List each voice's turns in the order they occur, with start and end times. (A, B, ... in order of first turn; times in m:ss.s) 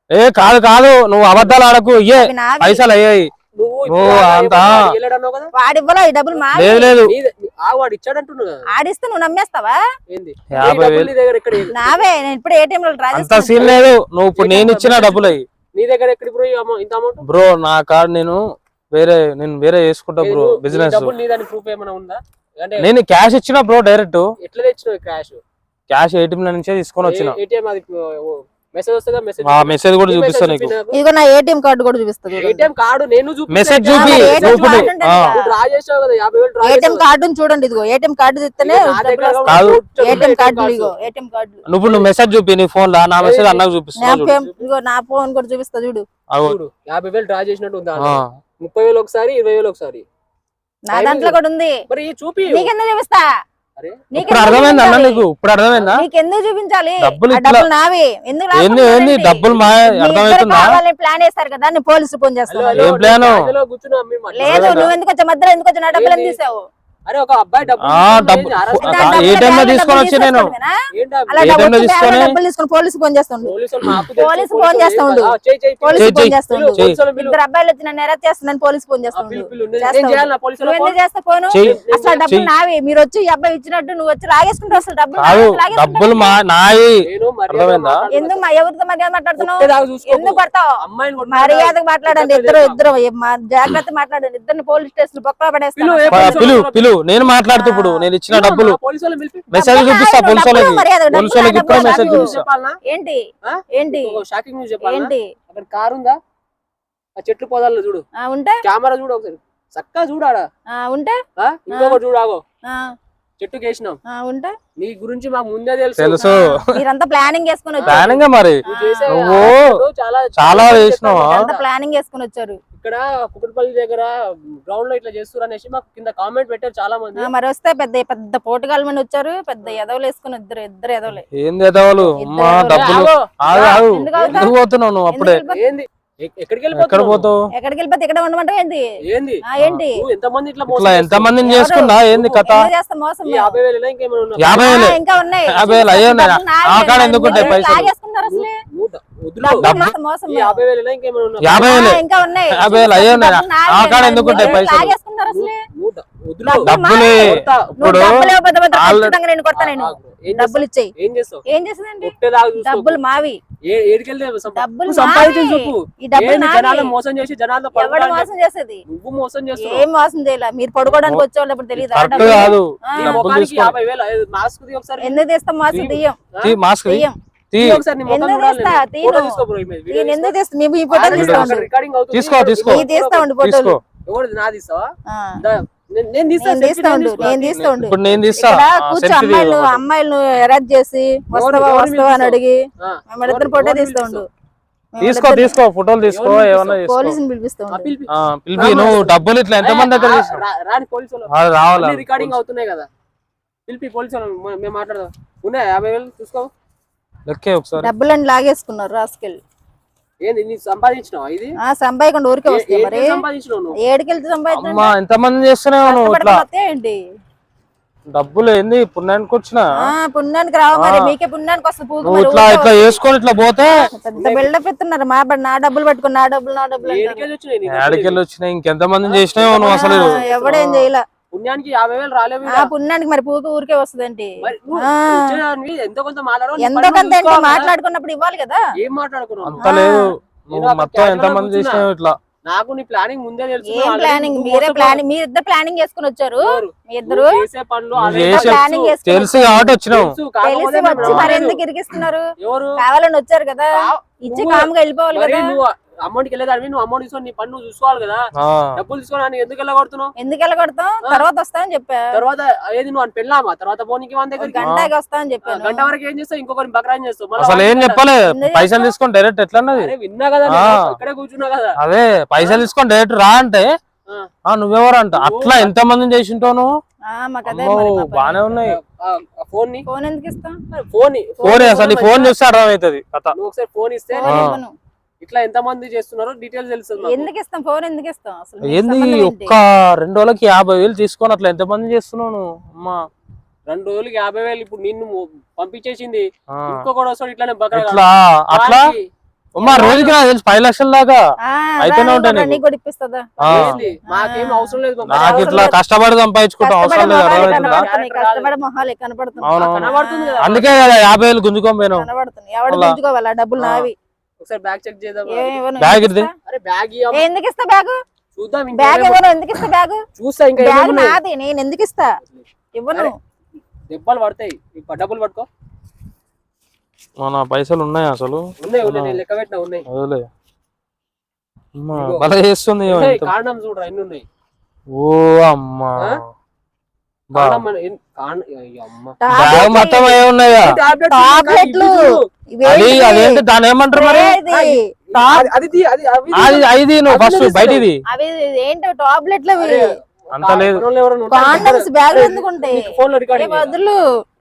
0:00.1-0:03.3 A
0:02.2-0:02.8 B
0:03.6-0:05.5 C
0:03.9-0:04.9 A
0:05.5-0:06.9 B
0:06.5-0:07.1 A
0:07.0-0:08.6 C
0:08.7-0:09.8 B
0:10.1-0:12.0 C
0:10.5-0:11.1 A
0:11.7-0:13.7 B
0:13.1-0:15.4 A
0:14.3-0:17.2 C
0:17.2-0:18.4 A
0:18.9-0:21.1 A
0:20.2-0:22.9 C
0:22.8-0:24.3 A
0:24.4-0:25.4 C
0:25.9-0:27.4 A
0:27.0-0:31.0 C
0:29.4-0:30.7 A
0:30.9-0:32.7 B
0:32.4-0:37.0 C
0:33.5-0:35.3 A
0:33.9-0:35.4 B
0:36.6-0:41.6 B
0:38.6-0:40.9 C
0:39.4-0:40.3 A
0:41.7-0:44.4 A
0:43.2-0:43.6 C
0:44.0-0:46.0 B
0:44.3-0:44.7 C
0:46.3-0:46.6 A
0:46.4-0:50.0 C
0:48.0-0:48.3 A
0:50.9-0:51.8 B
0:50.9-0:51.4 C
0:51.9-0:52.7 C
0:52.5-0:53.2 B
0:53.8-0:54.1 C
0:54.1-0:55.2 B
0:54.1-0:56.0 A
0:55.9-1:02.9 B
0:57.0-0:57.6 A
0:58.5-1:00.8 A
1:02.5-1:04.9 C
1:02.8-1:03.5 A
1:04.3-1:06.6 B
1:04.4-1:04.9 A
1:05.9-1:06.4 C
1:07.0-1:09.7 C
1:07.8-1:10.5 A
1:08.8-1:10.7 B
1:10.9-1:11.6 C
1:11.3-1:13.5 B
1:11.4-1:12.3 A
1:13.4-1:17.4 C
1:14.2-1:26.4 B
1:15.9-1:17.0 A
1:19.1-1:21.0 C
1:21.5-1:22.5 A
1:21.5-1:22.3 C
1:25.2-1:28.0 A
1:27.0-1:28.4 C
1:28.1-1:30.7 B
1:29.4-1:32.8 C
1:31.3-1:36.6 B
1:35.8-1:36.9 C
1:36.1-1:38.8 A
1:37.5-1:38.1 B
1:38.3-1:39.5 C
1:39.5-1:42.4 A
1:39.5-1:42.3 B
1:41.1-1:42.8 C
1:42.8-1:43.2 B
1:43.4-1:46.2 C
1:43.7-1:44.2 B
1:44.8-1:45.2 B
1:47.2-1:48.0 C
1:48.2-1:48.6 B
1:48.6-1:50.4 C
1:50.7-1:51.2 B
1:51.4-1:52.4 C
1:51.7-1:52.0 B
1:53.4-1:54.0 C
1:54.1-1:54.5 B
1:54.8-1:56.3 C
1:56.0-1:56.8 A
1:56.2-1:58.1 B
1:57.8-2:01.6 C
1:57.9-1:59.7 A
1:58.6-1:59.2 B
2:00.4-2:01.5 A
2:01.3-2:02.6 B
2:02.8-2:07.3 C
2:07.2-2:11.2 B
2:11.3-2:15.4 A
2:12.1-2:14.6 B
2:12.6-2:14.5 C
2:15.1-2:15.6 B
2:15.5-2:17.3 C
2:16.7-2:17.4 A
2:17.5-2:18.8 B
2:19.0-2:22.5 C
2:19.4-2:20.0 B
2:20.7-2:22.7 A
2:21.5-2:22.0 B
2:22.5-2:23.5 B
2:23.2-2:24.8 C
2:24.4-2:27.9 A
2:24.5-2:28.6 B
2:27.2-2:27.6 C
2:28.3-2:29.8 C
2:29.4-2:30.6 B
2:29.6-2:29.9 A
2:30.3-2:31.9 C
2:31.4-2:34.9 A
2:31.5-2:35.6 B
2:34.3-2:34.6 C
2:35.3-2:37.9 C
2:36.4-2:40.9 B
2:36.6-2:39.2 A
2:39.5-2:41.4 C
2:41.5-2:43.4 B
2:42.0-2:43.0 C
2:43.6-2:48.3 C
2:44.5-2:46.9 B
2:47.7-2:48.8 B
2:48.9-2:49.9 C
2:49.6-2:53.2 B
2:51.9-2:53.7 A
2:52.1-2:56.6 C
2:55.0-2:56.2 B
2:56.4-2:57.8 A
2:56.9-2:57.1 B
2:57.6-3:00.3 C
2:58.1-2:59.4 B
2:59.9-3:01.6 B
3:00.9-3:03.3 C
3:01.1-3:01.6 A
3:02.1-3:02.9 A
3:02.6-3:03.8 B
3:03.4-3:03.8 A
3:04.0-3:08.4 C
3:06.4-3:12.6 B
3:07.2-3:09.8 A
3:11.3-3:14.2 C
3:13.1-3:14.2 B
3:14.9-3:15.6 B
3:15.0-3:17.2 A
3:16.0-3:16.8 C
3:16.8-3:17.9 B
3:17.7-3:22.9 C
3:18.1-3:20.4 A
3:21.3-3:22.3 A
3:23.7-3:26.5 C
3:27.3-3:27.9 A
3:27.8-3:29.4 B
3:30.2-3:31.5 C
3:31.6-3:33.2 B
3:32.5-3:33.8 C
3:33.8-3:34.9 B
3:34.5-3:36.4 A
3:35.8-3:37.0 B
3:38.1-3:39.6 A
3:39.8-3:43.0 B
3:40.8-3:41.1 A
3:42.0-3:43.8 A
3:44.0-3:47.2 B
3:44.1-3:44.5 C
3:46.8-3:48.2 C
3:47.7-3:50.9 A
3:49.0-3:50.7 C
3:49.6-3:51.0 B
3:51.3-3:52.7 C
3:52.5-3:55.4 B
3:54.4-3:57.7 C
3:56.6-3:58.6 B
3:58.8-3:59.6 C
3:59.4-4:02.2 A
3:59.6-4:00.0 B
4:00.5-4:01.9 C
4:02.5-4:05.0 C
4:03.6-4:07.4 B
4:06.4-4:08.9 C
4:08.0-4:10.1 A
4:08.3-4:09.8 B
4:09.9-4:11.6 C
4:10.4-4:12.2 B
4:11.0-4:11.4 A
4:12.4-4:12.8 C
4:12.8-4:15.6 B
4:13.8-4:20.1 C
4:18.4-4:18.8 A
4:20.2-4:22.0 B
4:22.1-4:24.6 C
4:24.4-4:25.9 B
4:24.6-4:24.9 A
4:25.4-4:28.0 C
4:27.4-4:29.9 A
4:28.3-4:28.9 B
4:29.7-4:31.7 C
4:30.4-4:30.9 A
4:31.8-4:33.7 A
4:32.4-4:32.7 C
4:34.4-4:36.7 A
4:35.1-4:35.7 C
4:37.1-4:38.5 B
4:37.4-4:38.8 A
4:38.5-4:39.8 C
4:39.9-4:40.5 B
4:40.7-4:42.3 C
4:41.4-4:41.8 B
4:41.4-4:43.3 A
4:43.3-4:44.5 C
4:44.1-4:44.7 B
4:44.2-4:44.6 A
4:45.2-4:47.3 C
4:47.0-4:49.5 B
4:48.6-4:53.0 A
4:53.7-4:59.1 C
4:56.6-4:56.9 A
4:57.7-4:58.8 A
4:59.6-5:01.2 A
4:59.6-5:00.1 B
4:59.6-5:00.2 C
5:01.4-5:05.8 B
5:01.8-5:02.6 A
5:03.4-5:03.7 A
5:03.4-5:05.7 C
5:05.0-5:07.8 A
5:06.6-5:10.5 B
5:06.9-5:08.5 C
5:09.4-5:12.1 A
5:09.5-5:10.9 C
5:11.9-5:13.9 B
5:12.7-5:13.0 A
5:13.6-5:13.9 A
5:14.4-5:15.6 C
5:15.3-5:16.3 B
5:15.8-5:16.3 A
5:16.4-5:17.2 C
5:17.1-5:17.9 B
5:18.3-5:19.2 C
5:18.7-5:20.0 B
5:20.2-5:21.2 C
5:20.6-5:22.1 B
5:22.2-5:23.1 C
5:22.8-5:23.1 B
5:23.9-5:25.5 C
5:27.2-5:29.2 A
5:28.6-5:29.8 C
5:29.9-5:30.2 A
5:31.8-5:33.3 A
5:31.9-5:32.2 C
5:32.9-5:34.2 C
5:34.9-5:36.2 A
5:37.3-5:39.2 C
5:37.3-5:37.6 A
5:39.2-5:40.2 B
5:39.3-5:40.7 A
5:40.6-5:42.2 C
5:41.0-5:42.0 B
5:42.5-5:43.4 B
5:42.6-5:44.4 A
5:43.9-5:44.8 B
5:44.5-5:47.9 C
5:46.3-5:48.0 A
5:48.1-5:49.8 B
5:49.6-5:53.8 C
5:50.3-5:50.8 A
5:51.3-5:54.0 B